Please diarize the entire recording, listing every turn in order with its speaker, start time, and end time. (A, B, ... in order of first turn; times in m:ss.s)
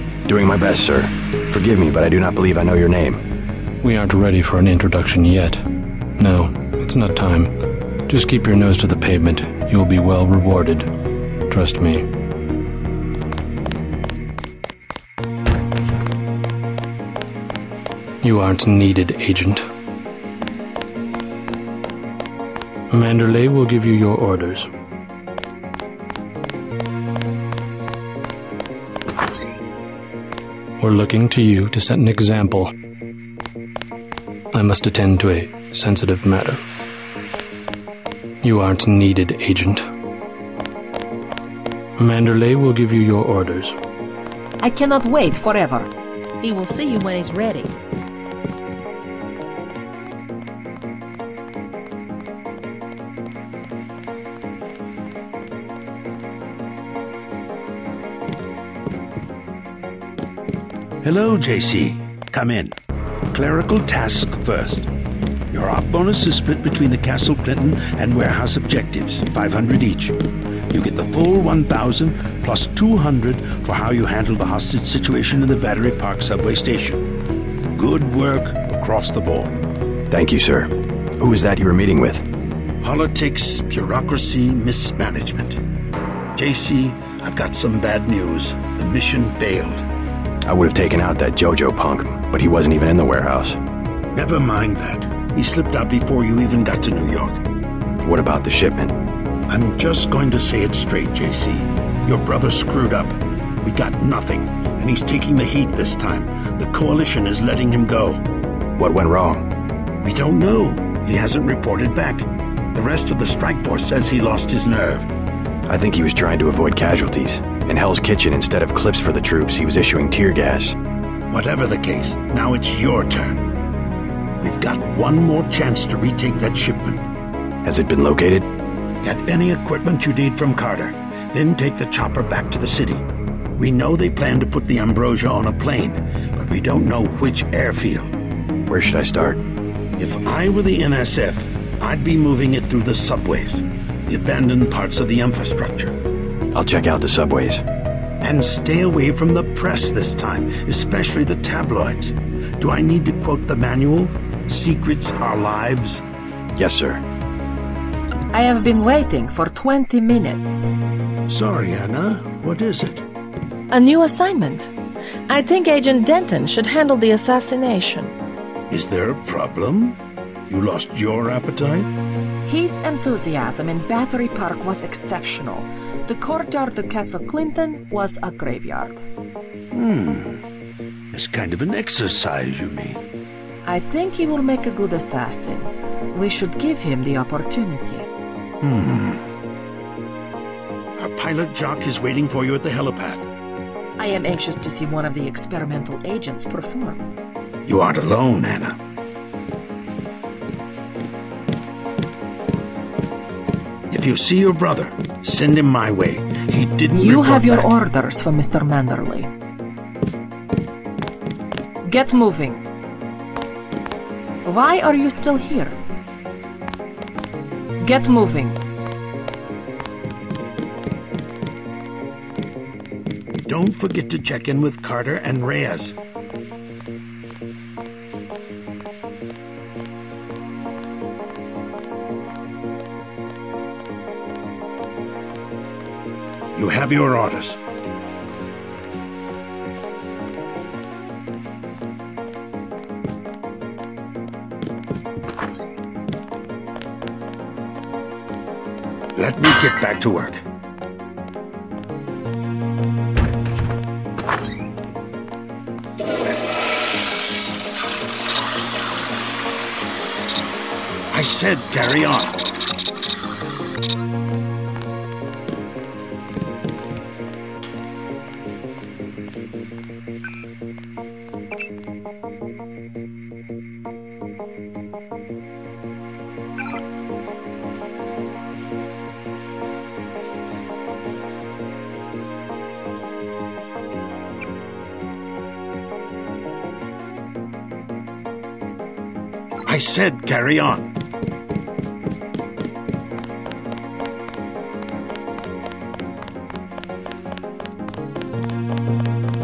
0:00.2-0:03.2 A
0:03.8-0:05.6 B
0:06.2-0:07.5 B
0:08.1-0:10.9 B
0:11.5-0:12.0 B
0:18.2-0:19.6 B
0:22.9-0:24.7 B
0:30.8-0:32.7 B
0:34.5-0:36.6 B
0:38.4-0:39.8 B
0:42.0-0:43.8 B
0:44.6-0:47.7 C
1:01.0-1:02.8 D
1:03.3-1:04.9 D
1:05.5-1:10.2 D
1:10.7-1:17.0 D
1:17.7-1:19.5 D
1:20.1-1:22.2 A
1:22.8-1:25.6 D
1:26.3-1:29.8 D
1:30.4-1:33.6 A
1:34.1-1:37.4 D
1:38.0-1:38.9 A
1:39.5-1:48.2 D
1:48.8-1:49.4 A
1:50.0-1:55.1 D
1:55.7-2:00.8 A
2:01.3-2:03.5 D
2:04.4-2:07.0 D
2:07.6-2:08.5 A
2:09.0-2:18.1 D
2:18.7-2:19.4 A
2:20.0-2:26.0 D
2:26.5-2:27.6 A
2:28.2-2:36.0 D
2:36.5-2:37.0 A
2:38.3-2:40.7 C
2:41.3-2:43.0 D
2:43.7-2:44.7 C
2:45.3-2:48.1 C
2:48.7-2:51.9 D
2:52.4-2:59.0 C
2:59.7-3:00.4 D
3:01.1-3:03.0 D
3:03.6-3:08.1 C
3:08.6-3:09.2 D
3:11.0-3:13.3 D
3:14.0-3:17.0 C
3:17.6-3:18.8 D
3:23.9-3:27.7 D
3:27.0-3:29.3 C
3:31.8-3:32.6 C
3:34.4-3:35.8 C
3:37.8-3:38.6 C
3:43.5-3:46.0 D
3:56.5-3:57.6 D
4:09.1-4:10.4 D
4:21.1-4:22.4 D
4:49.6-4:50.9 D